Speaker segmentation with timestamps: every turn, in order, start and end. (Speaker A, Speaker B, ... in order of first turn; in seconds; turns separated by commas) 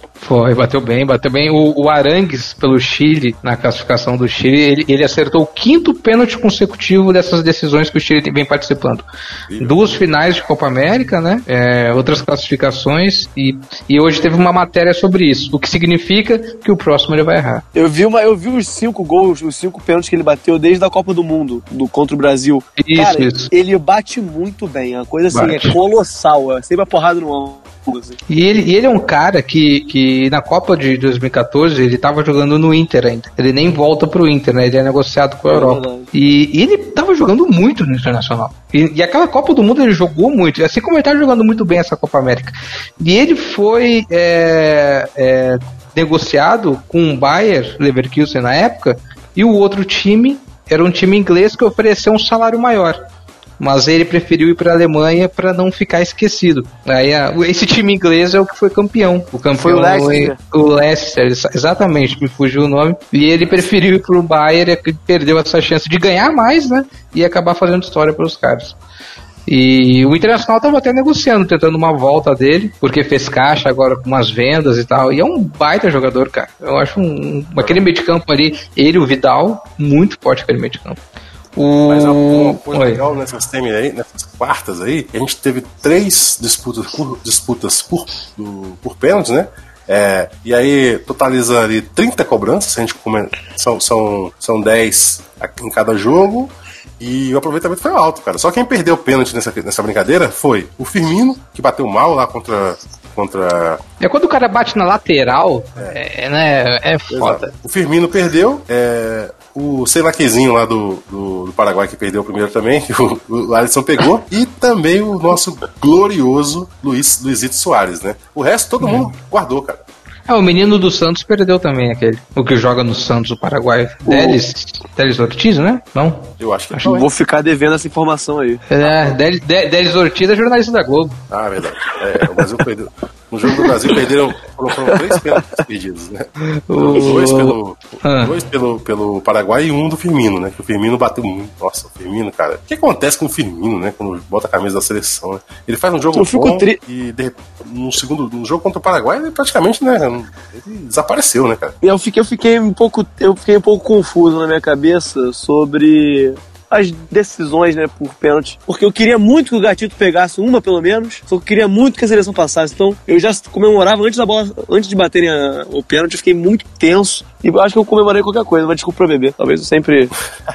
Speaker A: 0.2-9.0, Speaker B: 9.5-10.0, Speaker A: 9.6-17.6, Speaker C: 17.7-28.2, Speaker A: 22.8-23.5, Speaker A: 25.3-25.8, Speaker A: 28.3-53.0, Speaker C: 35.5-36.1, Speaker A: 53.6-68.8, Speaker C: 59.5-60.4, Speaker A: 69.5-81.0, Speaker A: 81.5-83.0, Speaker B: 81.9-103.8, Speaker A: 104.0-107.5, Speaker B: 107.1-119.8, Speaker A: 118.8-119.1, Speaker A: 120.3-126.9, Speaker C: 124.0-124.4, Speaker B: 126.4-127.1, Speaker C: 126.9-128.6, Speaker A: 128.7-131.2, Speaker B: 128.8-129.2, Speaker B: 131.3-151.8, Speaker C: 134.9-135.4, Speaker A: 136.4-138.3, Speaker C: 146.1-146.8, Speaker C: 151.8-170.1